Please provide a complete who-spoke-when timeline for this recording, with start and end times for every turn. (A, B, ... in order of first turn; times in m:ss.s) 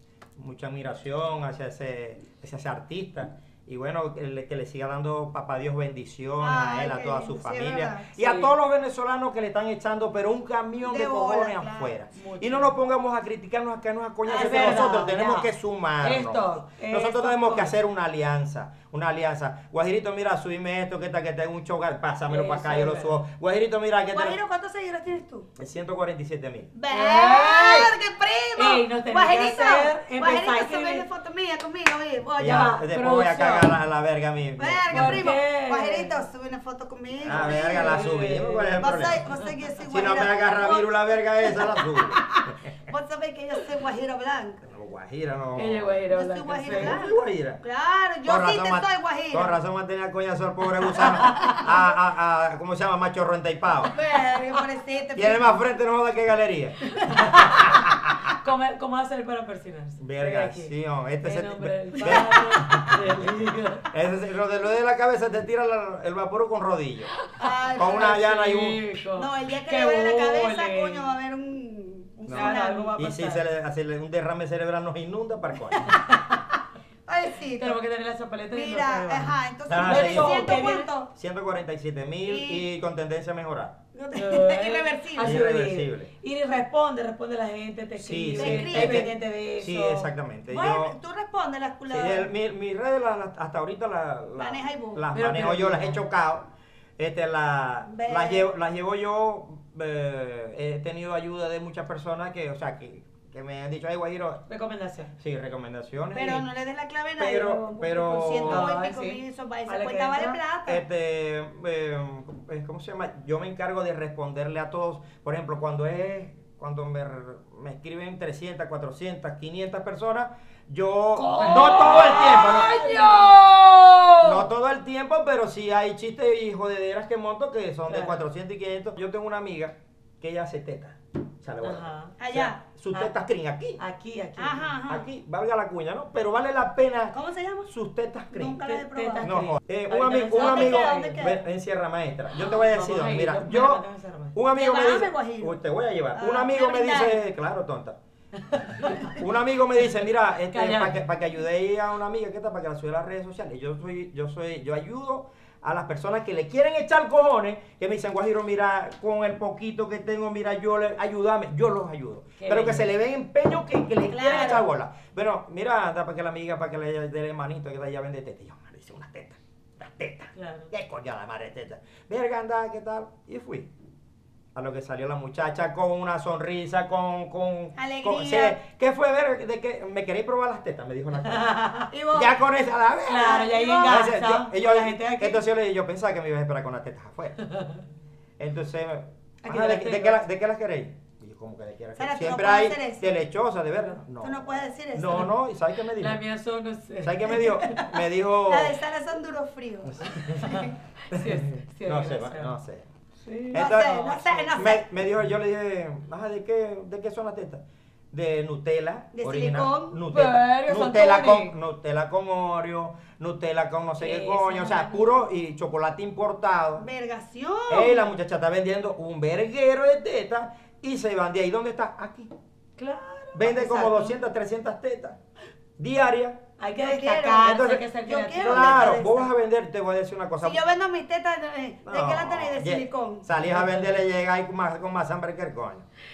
0:00.4-0:24.4 A
0:06.4-0:08.1 B
0:08.2-0:08.5 C
0:10.8-0:12.0 B
0:12.1-0:12.7 C
0:14.2-0:15.5 C
0:14.3-0:14.8 B
0:16.0-0:17.7 C
0:22.3-0:23.2 C
0:24.1-0:25.5 B
0:25.6-0:26.7 A
0:26.7-0:32.8 B
0:26.9-0:27.9 C
0:28.6-0:31.0 C
0:32.4-0:35.3 A
0:32.4-0:33.8 C
0:34.6-0:38.1 B
0:34.9-0:36.2 C
0:37.2-0:39.2 A
0:37.2-0:39.5 C
0:38.8-0:44.6 B
0:39.9-0:42.7 A
0:44.6-0:46.0 A
0:45.6-0:47.0 C
0:46.1-0:49.6 B
0:46.7-0:47.6 A
0:48.2-0:53.9 A
0:51.2-0:51.6 C
0:53.9-0:55.6 B
0:55.1-0:58.3 A
0:57.0-0:57.8 C
0:58.4-1:03.9 C
1:00.0-1:07.1 A
1:02.0-1:02.5 B
1:07.2-1:11.1 C
1:07.4-1:08.2 B
1:07.8-1:08.8 A
1:09.2-1:13.0 B
1:12.3-1:15.9 A
1:12.3-1:13.4 C
1:15.8-1:16.3 C
1:17.1-1:17.8 B
1:17.6-1:20.9 C
1:18.5-1:21.1 B
1:19.7-1:20.6 A
1:21.1-1:23.8 A
1:22.2-1:22.6 B
1:23.9-1:25.4 B
1:24.1-1:30.1 C
1:25.2-1:26.1 A
1:28.0-1:30.9 A
1:28.3-1:29.1 B
1:30.5-1:32.3 B
1:31.9-1:44.4 A
1:34.4-1:35.0 B
1:35.1-1:36.0 C
1:37.9-1:38.5 B
1:44.5-1:45.1 C
1:45.2-1:46.5 A
1:46.1-1:50.8 B
1:47.2-1:48.7 A
1:48.4-1:50.4 C
1:50.6-2:02.8 A
2:01.2-2:04.4 C
2:01.8-2:03.3 B
2:04.2-2:13.8 A
2:07.9-2:08.2 C
2:11.6-2:12.1 C
2:12.2-2:12.6 B
2:13.8-2:14.7 C
2:14.4-2:15.1 B
2:14.9-2:17.1 A
2:17.1-2:17.7 B
2:17.7-2:18.6 A
2:18.3-2:19.3 B
2:18.6-2:21.2 C
2:19.2-2:23.8 A
2:20.3-2:21.4 B
2:22.3-2:24.3 C
2:24.3-2:28.0 A
2:24.5-2:25.6 B
2:26.1-2:27.2 B
2:28.4-2:29.2 C
2:28.8-2:53.7 A
2:30.5-2:31.0 C
2:42.4-2:42.9 C
2:44.1-2:44.6 B
2:50.3-2:50.7 C
2:54.5-3:01.5 A
2:57.8-2:58.6 B
3:01.2-3:01.9 C
3:01.9-3:02.3 B
3:02.1-3:07.4 A
3:03.0-3:05.4 C
3:03.1-3:04.1 B
3:07.5-3:07.8 C
3:08.4-3:16.2 A
3:09.4-3:10.2 C
3:12.0-3:13.2 B
3:14.2-3:15.3 B
3:16.0-3:17.8 C
3:17.0-3:18.8 A
3:18.5-3:20.7 B
3:19.8-3:22.9 A
3:20.4-3:22.5 C
3:23.2-3:23.8 C
3:23.5-3:36.8 A
3:23.5-3:24.8 B
3:29.1-3:30.0 B
3:30.1-3:31.5 C
3:34.0-3:35.1 C
3:36.8-3:38.0 B
3:37.7-3:42.3 A
3:42.8-3:44.2 C
3:43.3-3:45.2 A
3:45.8-3:46.4 A
3:46.6-3:49.0 C
3:46.8-3:49.3 B
3:47.4-3:47.8 A
3:48.4-3:50.6 A
3:50.4-3:53.2 B
3:51.8-3:55.8 A
3:53.6-3:53.8 C